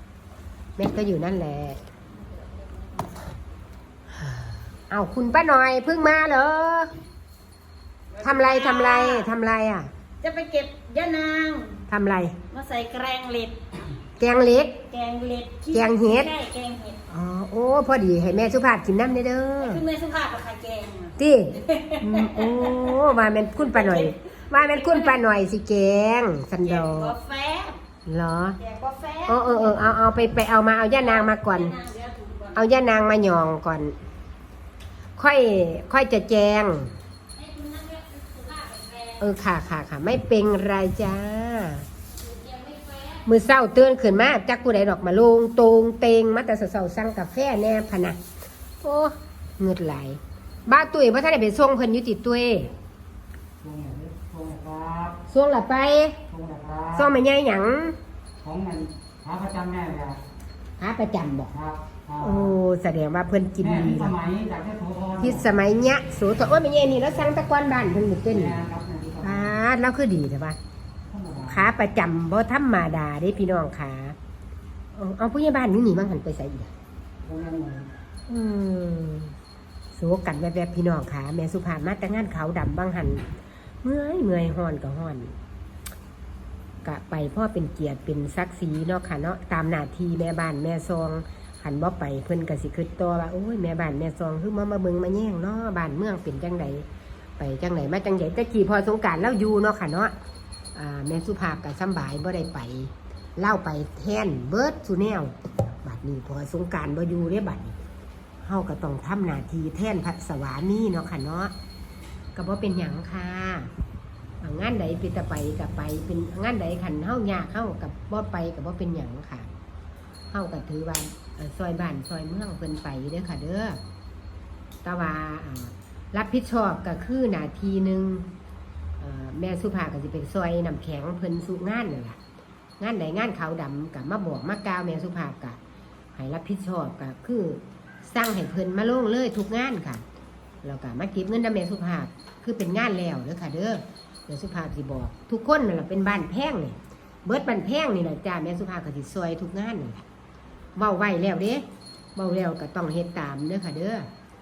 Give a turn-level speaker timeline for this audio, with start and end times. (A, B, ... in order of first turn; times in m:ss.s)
0:00.8-0:01.8 A
0:04.2-0:06.9 A
0:08.1-0:09.3 B
0:08.2-0:09.9 A
0:10.2-0:11.8 B
0:11.9-0:12.4 A
0:12.5-0:13.6 B
0:14.2-0:14.8 A
0:14.8-0:17.0 B
0:15.7-0:16.3 A
0:17.1-0:19.8 A
0:19.6-0:21.2 B
0:21.2-0:27.2 A
0:21.7-0:22.8 B
0:26.7-0:27.8 B
0:28.0-0:28.6 A
0:28.6-0:30.0 B
0:29.2-0:31.8 A
0:31.0-0:32.6 B
0:32.5-0:34.0 A
0:35.2-0:36.9 A
0:37.4-0:39.2 B
0:39.2-0:41.9 A
0:42.2-0:43.2 B
0:43.2-0:48.2 A
0:48.8-0:52.7 A
0:53.6-0:55.2 C
0:55.3-0:56.2 A
0:56.3-0:57.1 C
0:56.9-0:58.0 A
0:58.4-1:00.2 C
1:00.8-1:01.5 A
1:01.5-1:02.6 C
1:02.2-1:04.1 A
1:03.6-1:05.6 C
1:05.2-1:08.6 A
1:08.3-1:09.6 C
1:09.2-1:10.6 A
1:11.1-1:11.7 C
1:11.5-1:14.2 A
1:14.9-1:16.7 A
1:17.2-1:17.9 C
1:18.3-1:19.3 A
1:19.9-1:23.3 A
1:23.8-1:25.3 A
1:26.8-1:36.9 A
1:37.4-1:40.1 A
1:40.7-1:47.8 A
1:48.4-1:51.5 A
1:52.3-1:53.7 A
1:54.4-1:59.5 A
2:00.3-2:03.8 A
2:04.8-2:08.3 A
2:09.0-2:12.2 A
2:12.8-2:15.6 A
2:16.1-2:20.0 A
2:20.6-2:30.0 A
2:30.8-2:31.6 A
2:32.2-2:34.1 A